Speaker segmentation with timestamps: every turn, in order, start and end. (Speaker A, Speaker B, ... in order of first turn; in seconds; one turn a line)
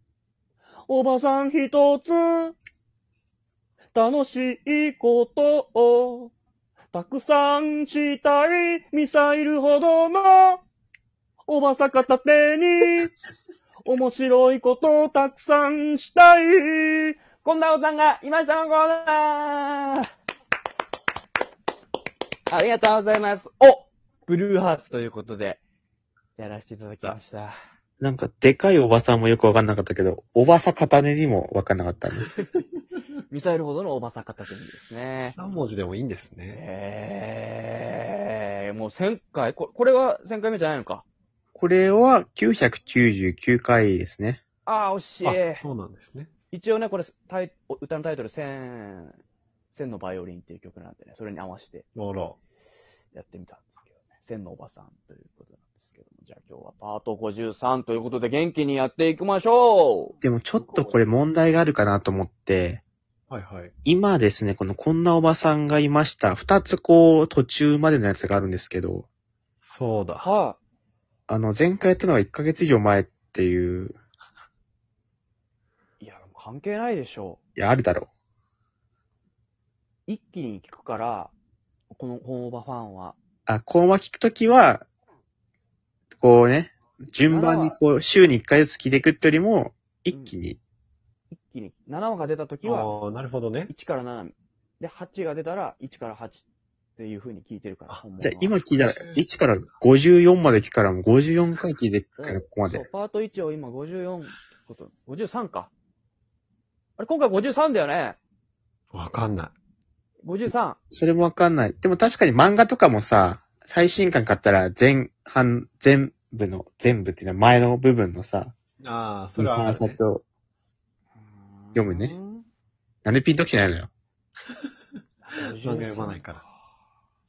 Speaker A: 0.9-2.5
Speaker A: 3.9-6.3
Speaker A: 6.9-10.6
Speaker A: 11.5-13.1
Speaker A: 13.8-20.0
Speaker A: 22.5-25.6
Speaker A: 26.4-27.6
Speaker B: 28.0-32.3
Speaker A: 33.3-35.4
Speaker C: 35.3-36.6
Speaker A: 36.5-41.0
Speaker B: 41.5-44.4
Speaker A: 44.6-45.6
Speaker C: 45.2-46.3
Speaker A: 46.5-49.2
Speaker A: 49.7-51.9
Speaker C: 51.9-52.4
Speaker A: 53.1-60.1
Speaker B: 60.2-62.8
Speaker C: 63.3-63.7
Speaker B: 63.8-69.1
Speaker C: 69.6-70.3
Speaker A: 70.2-70.6
Speaker B: 71.3-74.0
Speaker A: 76.0-77.4
Speaker B: 77.5-78.1
Speaker A: 80.1-81.3
Speaker A: 81.9-83.2
Speaker B: 83.5-84.9
Speaker B: 86.2-90.6
Speaker A: 87.3-87.8
Speaker A: 91.3-92.9
Speaker C: 92.6-93.7
Speaker A: 93.7-96.5
Speaker A: 97.0-98.6
Speaker B: 98.2-102.8
Speaker C: 98.8-99.2
Speaker A: 102.2-105.7
Speaker A: 107.0-108.2
Speaker C: 108.9-109.5
Speaker A: 110.2-110.8
Speaker B: 110.9-118.5
Speaker C: 118.8-120.0
Speaker B: 119.4-120.2
Speaker A: 121.2-122.5
Speaker B: 121.8-122.1
Speaker B: 123.0-123.9
Speaker A: 125.2-126.5
Speaker C: 125.4-126.4